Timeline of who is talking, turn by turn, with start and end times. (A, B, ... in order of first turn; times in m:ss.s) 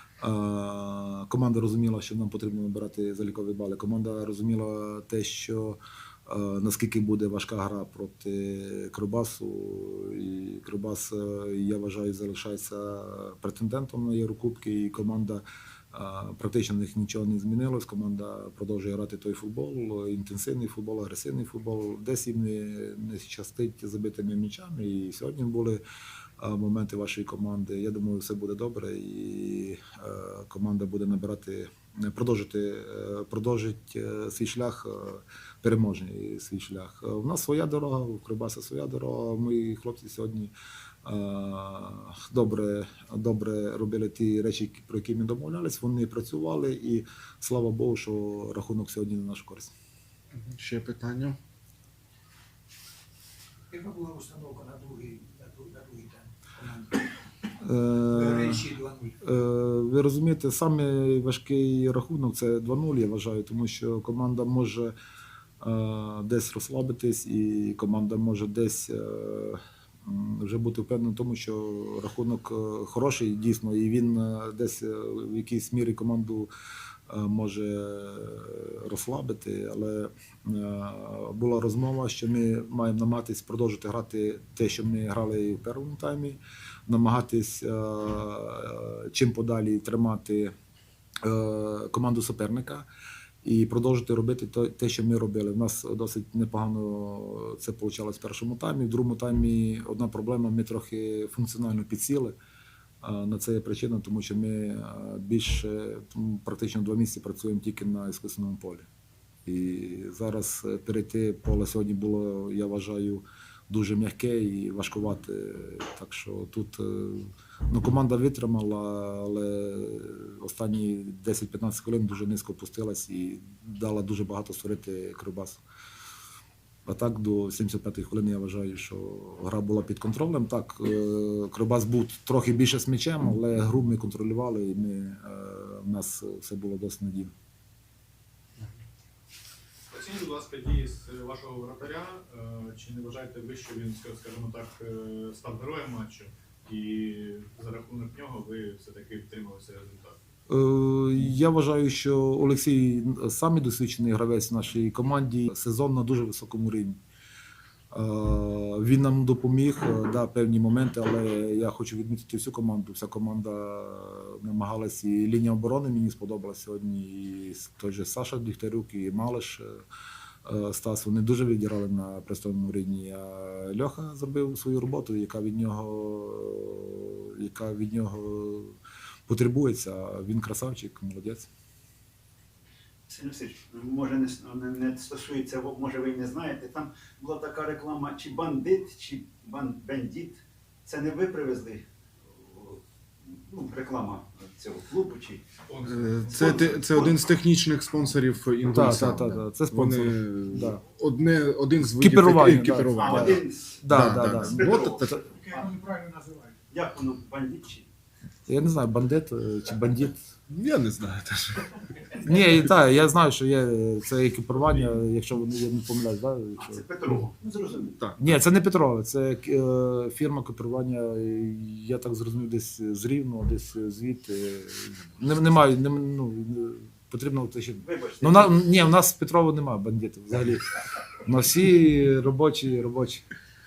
0:00.2-0:25.8 A
0:26.4-0:40.5 A
0:41.0-0:49.7 A
0:50.5-0:51.4 B
0:53.7-0:56.9 C
0:57.6-1:04.9 A
0:58.2-0:59.1 C
1:05.6-1:16.5 A
1:17.1-1:30.5 A
1:31.2-1:32.9 A
1:33.4-1:42.4 A
1:43.0-1:48.9 A
1:49.5-2:05.6 A
2:06.9-2:17.3 A
2:19.9-2:30.2 D
2:30.5-2:37.0 A
2:37.9-2:49.8 A
2:50.4-3:01.5 A
3:03.1-3:15.5 E
3:15.7-3:16.8 D
3:15.9-3:25.1 B
3:16.4-3:17.2 E
3:18.7-3:20.8 A
3:22.0-3:25.3 A
3:23.0-3:23.8 E
3:24.5-3:25.7 E
3:25.9-3:26.4 C
3:26.7-3:27.9 E
3:28.5-3:30.2 A
3:30.5-3:31.7 B
3:32.2-3:37.2 A
3:36.6-3:38.0 E
3:38.2-3:50.6 A
3:47.8-3:48.6 E
3:51.2-3:53.3 A